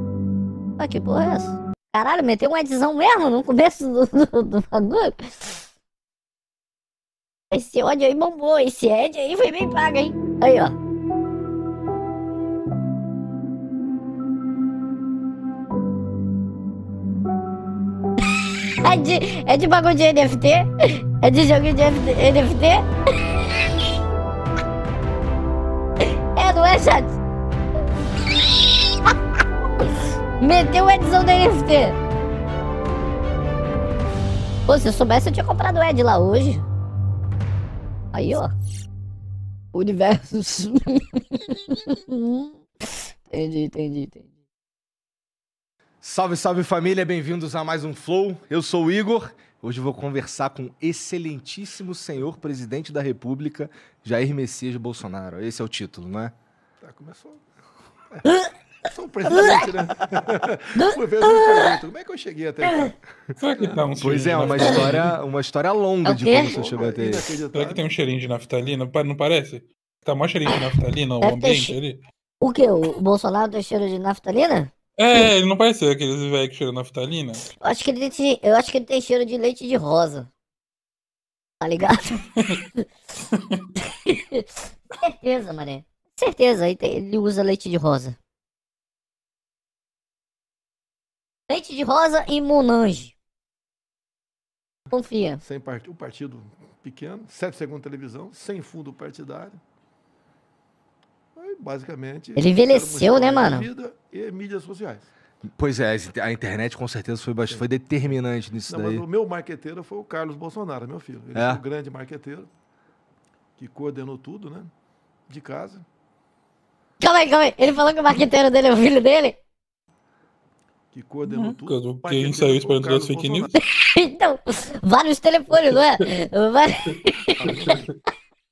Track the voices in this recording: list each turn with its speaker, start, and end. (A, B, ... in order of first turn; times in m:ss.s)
0:00.8-0:05.6 A
0:07.5-0:10.8 A
0:18.8-0:22.8 A
0:26.1-0:27.2 A
0:30.4-0:32.0 A
0:34.7-0:36.6 A
0:38.1-0:38.5 A
0:39.7-0:44.3 A
0:46.0-0:56.3 B
0:56.8-0:57.4 C
0:58.2-0:58.5 A
0:58.9-1:04.7 C
0:59.3-0:59.7 A
1:00.7-1:01.8 A
1:02.6-1:02.9 A
1:03.4-1:05.2 D
1:04.0-1:07.3 B
1:04.6-1:04.8 A
1:06.0-1:06.6 A
1:06.3-1:07.8 C
1:07.5-1:12.0 D
1:11.2-1:11.8 A
1:12.4-1:15.2 A
1:15.0-1:17.5 D
1:17.6-1:20.3 A
1:21.6-1:22.2 A
1:24.0-1:24.5 A
1:25.0-1:28.2 A
1:31.5-1:33.1 A
1:34.9-1:35.4 A
1:35.4-1:39.6 C
1:41.4-1:45.1 C
1:42.4-1:43.7 A
1:45.6-1:49.0 B
1:48.7-1:52.5 C
1:51.3-1:51.6 B
1:53.6-1:54.7 C
1:55.3-1:55.8 C
1:57.0-1:59.4 A
2:00.9-2:03.6 C
2:01.2-2:03.5 D
2:03.6-2:07.7 A
2:07.4-2:07.9 C
2:07.5-2:07.7 D